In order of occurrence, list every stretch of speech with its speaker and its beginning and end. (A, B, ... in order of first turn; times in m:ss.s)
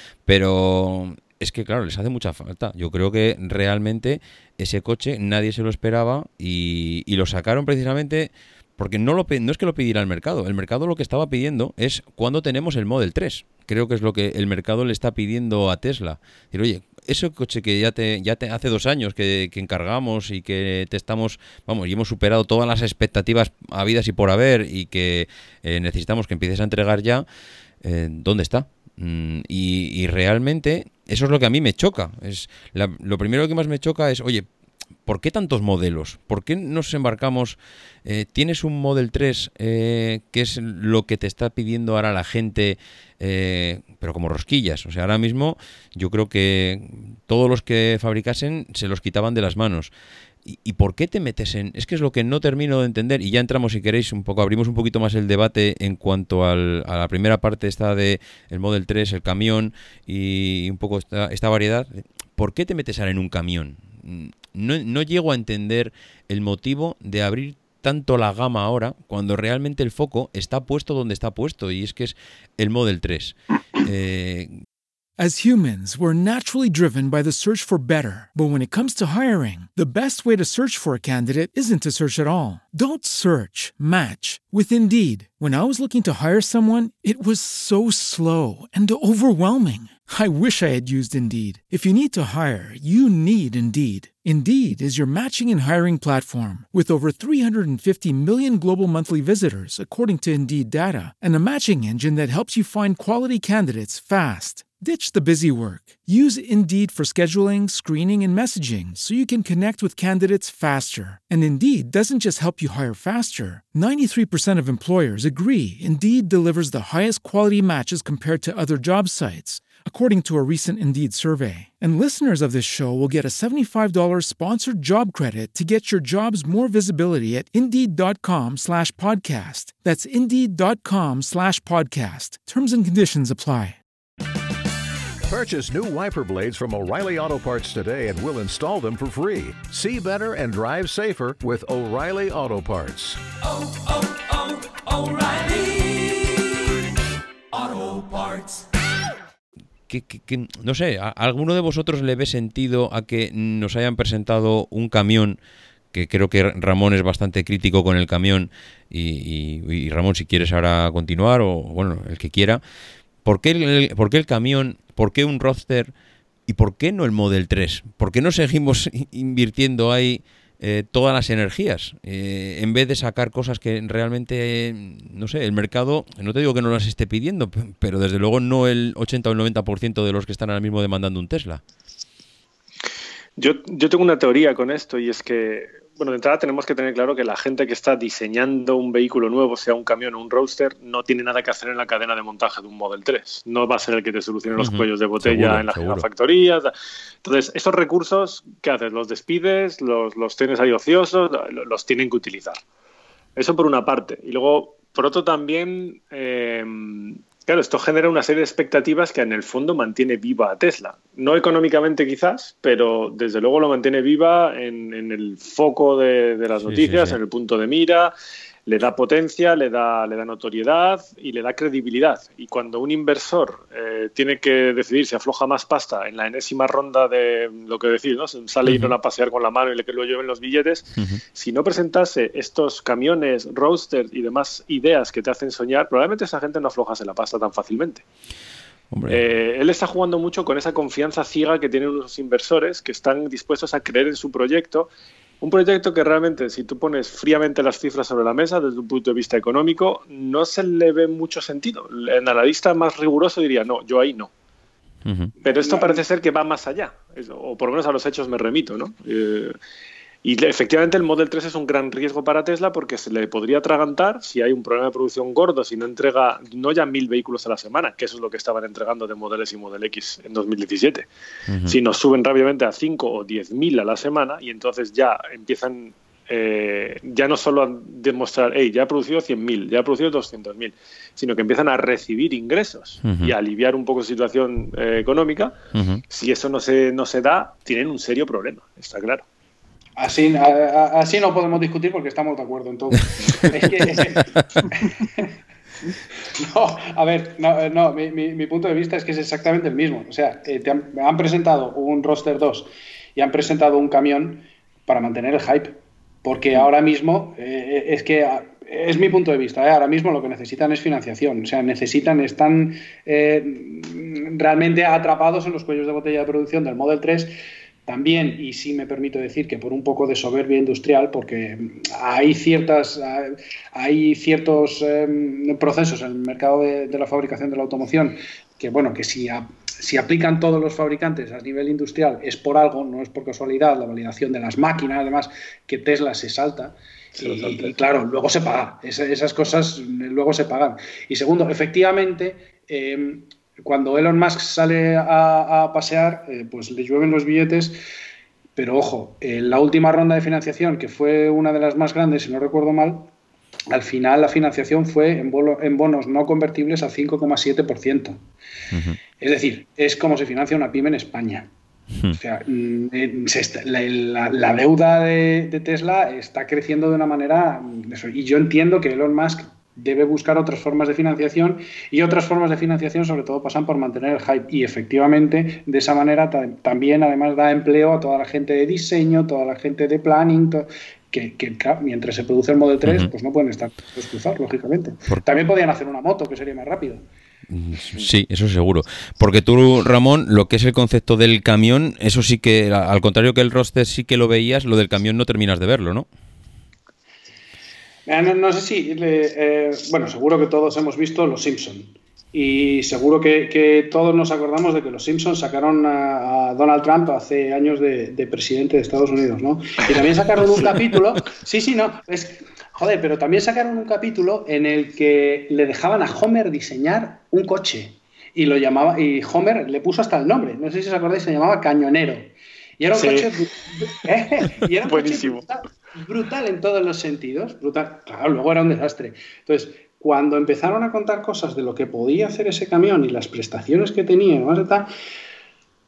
0:00.3-0:27.2 A
0:27.8-0:34.5 A
0:35.0-0:49.9 A
0:50.4-1:14.5 A
1:15.2-2:13.8 B
2:15.2-2:26.8 C
2:27.5-2:28.6 C
2:29.9-2:35.4 A
2:35.9-2:42.6 A
2:43.2-2:45.9 A
2:46.5-3:01.6 A
3:03.4-3:16.7 D
3:14.6-3:16.0 A
3:17.2-3:22.6 D
3:23.4-3:38.1 D
3:36.6-3:37.2 A
3:38.7-3:58.0 D
3:48.6-3:48.9 A
3:58.9-3:59.2 A
3:59.1-4:04.9 D
4:05.4-4:14.3 D
4:15.0-4:15.3 A
4:15.4-4:19.6 D
4:15.6-4:16.0 E
4:20.2-4:31.1 D
4:31.5-4:31.8 A
4:31.6-4:45.6 D
4:43.0-4:43.3 A
4:45.7-4:46.0 A
4:46.1-4:49.2 D
4:50.0-4:55.3 E
4:56.3-5:17.3 E
5:17.8-5:47.8 E
5:37.2-5:37.7 D
5:48.6-5:53.1 E
5:53.7-5:58.2 E
5:58.7-5:59.0 A
5:59.2-6:01.5 E
6:02.1-6:27.0 E
6:22.8-6:23.1 A
6:27.5-6:36.1 A
6:38.0-7:14.9 E
7:02.9-7:03.3 D
7:04.8-7:05.4 D